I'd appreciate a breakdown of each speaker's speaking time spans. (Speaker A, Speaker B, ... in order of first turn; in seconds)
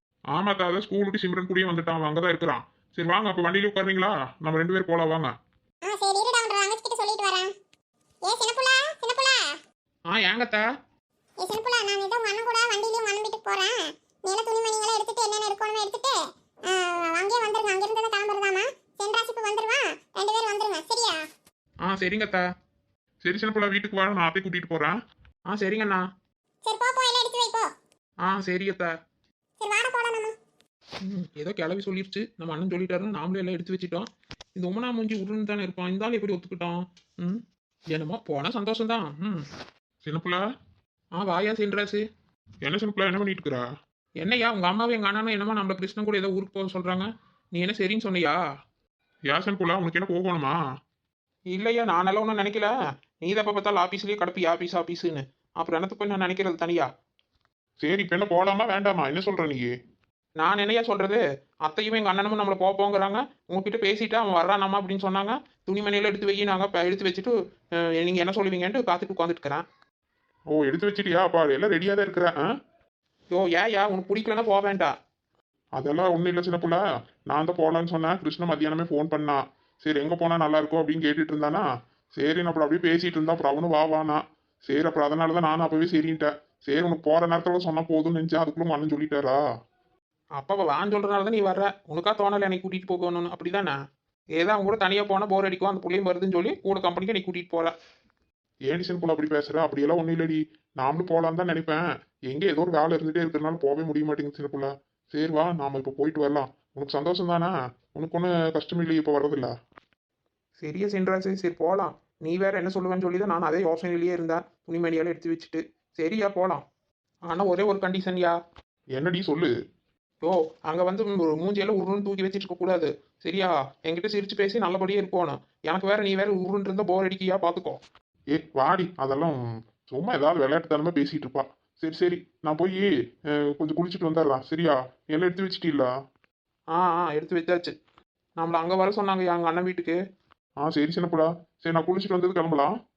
Speaker A: 0.3-5.3, 23.2-25.0, 40.0-40.4, 42.6-43.6, 49.3-50.5, 57.8-59.7, 70.5-72.4, 75.8-81.6, 82.2-89.4, 98.7-109.5, 119.0-119.5, 128.3-135.9, 140.6-142.7
Speaker B: 5.8-7.5, 8.2-9.5, 11.4-16.2, 16.7-21.2, 26.6-27.7, 29.6-30.3
Speaker C: 10.1-10.7, 21.8-22.4, 25.5-26.0, 28.2-28.9, 31.0-39.5, 41.1-42.0, 44.2-48.4, 51.5-56.9, 60.4-67.3, 68.0-69.6, 73.3-74.9, 90.4-93.8, 94.4-97.7, 110.6-116.6, 117.3-118.4, 120.2-127.8, 136.7-137.7, 138.4-140.0